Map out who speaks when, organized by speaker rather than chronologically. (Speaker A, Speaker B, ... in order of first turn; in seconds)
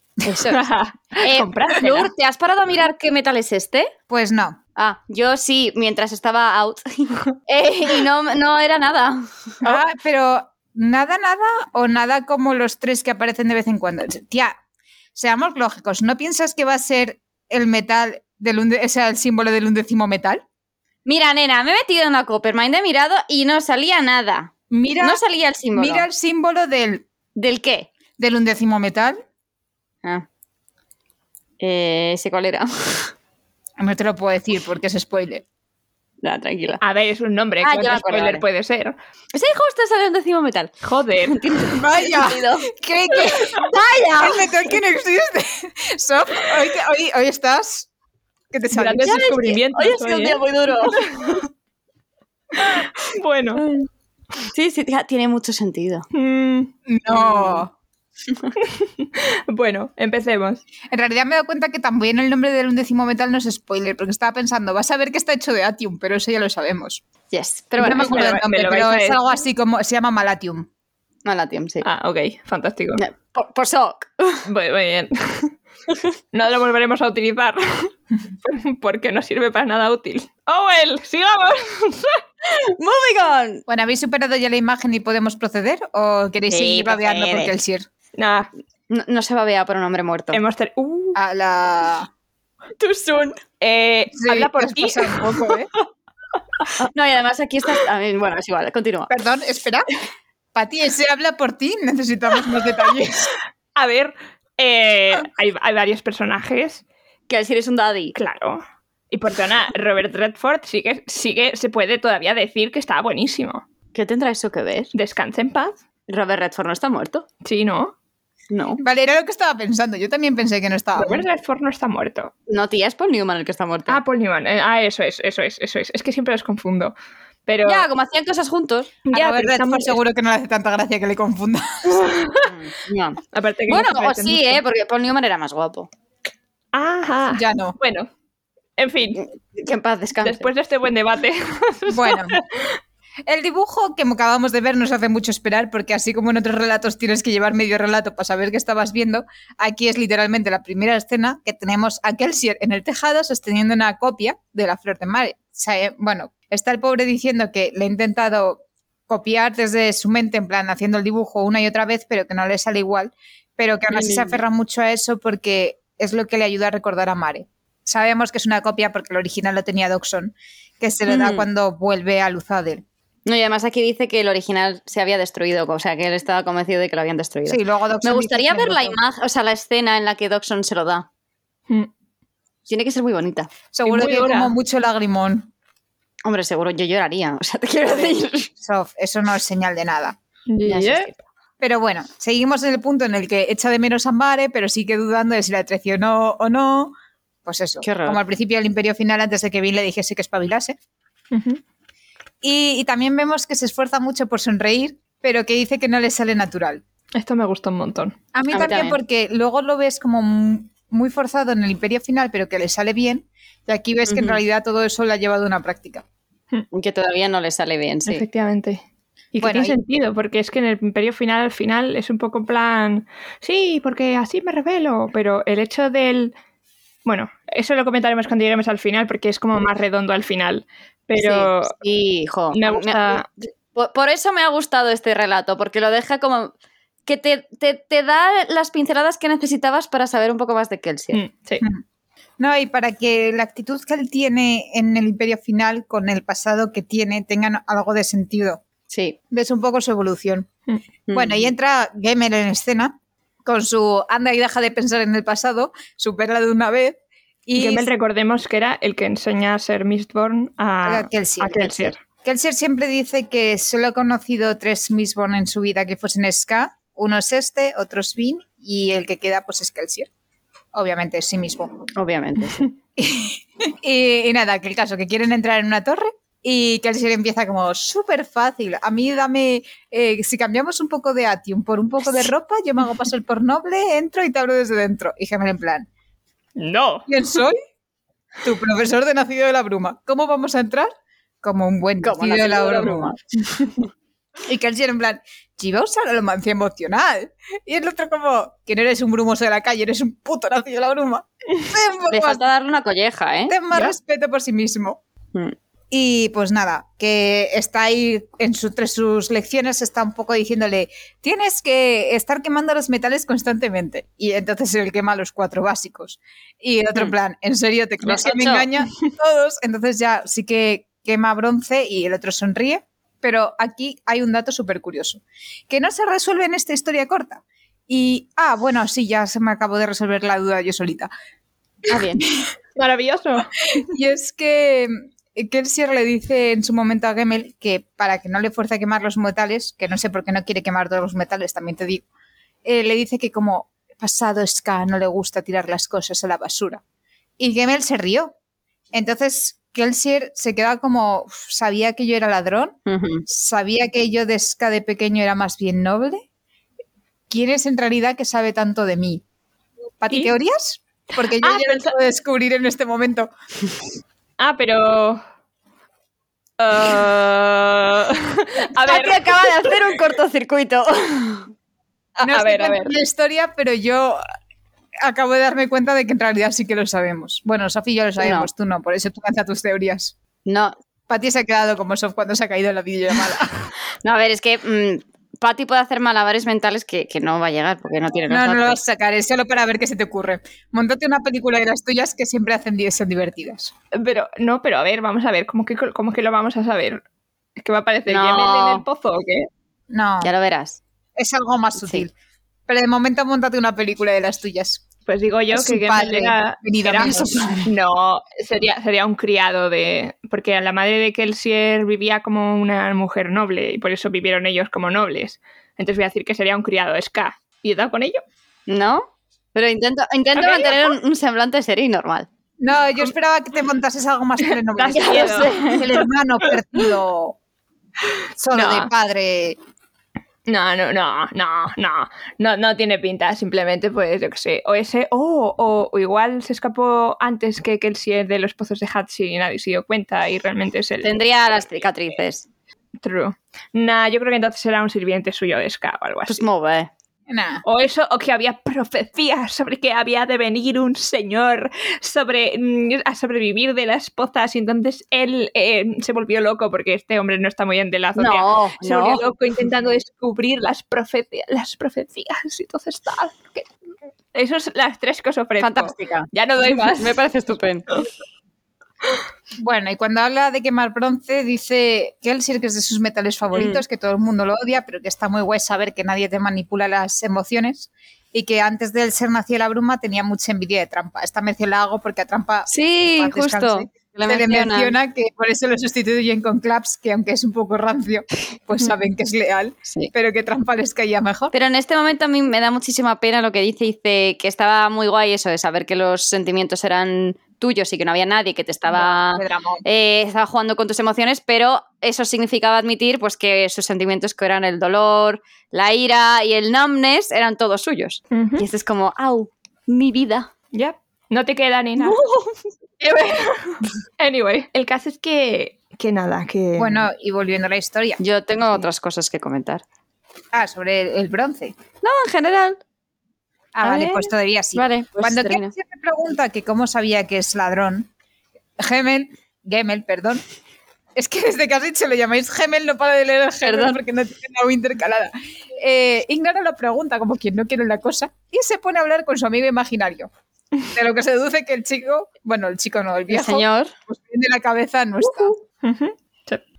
Speaker A: 0.2-0.6, 1.2-3.9, 4.8-9.8, 21.0-26.1, 27.3-27.9, 31.6-33.1, 36.2-36.8, 37.6-38.4, 39.3-44.5, 49.0-51.3, 53.6-53.9, 54.4-56.0, 57.1-57.6, 67.3-68.3, 71.2-71.8, 73.0-74.5, 82.4-83.6, 86.5-87.5, 88.9-90.4, 92.8-93.4, 96.8-99.1, 107.3-108.1, 113.9-114.9, 116.1-117.2, 118.5-118.8, 122.5-124.0, 127.6-129.0, 132.4-135.9, 139.2-140.5, 163.9-164.4, 171.1-171.5, 173.2-181.1, 182.7-183.5, 186.2-188.5, 190.6-191.2, 197.8-198.2, 208.5-209.0, 214.1-214.4, 216.7-218.2, 231.2-236.5, 237.1-241.2, 248.9-249.2, 251.1-251.5, 271.9-272.7, 292.0-293.8, 302.1-303.9, 318.0-318.7, 331.9-332.2, 352.9-353.2, 368.8-371.5, 378.2-378.5, 380.4-380.7, 384.0-388.8, 398.1-398.8, 400.2-400.8, 401.8-402.1, 418.7-422.3, 424.9-425.8, 441.0-442.5, 446.3-446.9, 458.1-459.2, 465.6-467.9, 473.5-473.8, 482.7-484.9, 491.5-510.5, 512.0-512.6, 518.2-519.8, 522.0-522.8, 523.8-525.7, 533.6-534.0, 543.3-543.9, 545.2-545.5
Speaker B: 0.5-2.1, 36.8-38.9, 40.8-41.4, 48.7-51.5, 52.5-53.6, 56.1-56.7, 58.6-60.6, 67.8-69.2, 71.8-73.0, 74.5-75.5, 76.3-82.2, 88.2-88.5, 90.3-91.2, 93.6-95.2, 103.8-106.8, 108.1-113.6, 114.9-115.8, 117.4-117.9, 121.0-122.3, 123.9-126.9, 127.5-127.8, 129.1-130.0, 132.0-132.5, 133.3-134.6, 136.7-138.1, 138.8-139.2, 140.2-142.8, 183.8-184.5, 190.5-191.1, 201.3-201.6, 207.1-208.2, 218.1-218.8, 219.3-226.3, 227.0-231.8, 232.5-233.2, 241.1-241.6, 257.6-261.9, 286.6-287.1, 332.8-333.5, 361.4-361.9, 364.4-365.2, 366.6-369.9, 372.2-372.9, 393.9-397.0, 397.6-399.5, 405.1-418.2, 420.3-420.9, 424.7-426.0, 428.5-428.9, 430.5-441.2, 443.0-446.4, 447.6-463.7, 464.3-467.2, 508.3-508.6, 510.7-512.2, 513.0-517.0, 545.8-546.6
Speaker C: 4.1-4.6, 9.6-14.5, 15.1-20.4, 24.7-25.2, 25.7-27.0, 28.2-29.2, 33.8-35.4, 41.7-47.9, 48.5-49.1, 56.9-57.7, 60.9-67.0, 67.8-70.7, 83.7-87.8, 91.1-92.1, 94.1-95.7, 99.1-99.9, 100.5-103.3, 118.8-121.2, 129.1-132.1, 137.3-137.8, 141.9-142.4, 143.2-172.8, 177.5-179.0, 183.7-185.5, 188.6-190.2, 191.6-196.9, 197.4-200.8, 202.4-206.8, 208.3-216.0, 219.4-219.8, 242.4-248.6, 249.3-250.5, 251.1-257.9, 260.8-270.1, 270.7-271.9, 273.0-285.9, 287.1-287.6, 288.4-290.9, 291.4-293.1, 294.4-302.4, 303.5-305.0, 305.9-331.1, 333.7-342.0, 342.6-346.8, 347.4-348.3, 348.9-356.2, 357.3-359.2, 360.0-363.3, 372.2-374.2, 375.0-380.1, 381.1-383.7, 388.3-393.7, 399.9-400.3, 401.2-402.1, 402.7-404.8, 405.5-407.7, 422.6-427.4, 428.4-429.6, 447.3-447.6, 469.6-491.5, 498.9-499.8, 516.8-518.2, 520.5-521.7, 523.7-528.1, 528.8-530.4, 531.1-540.3, 540.9-545.5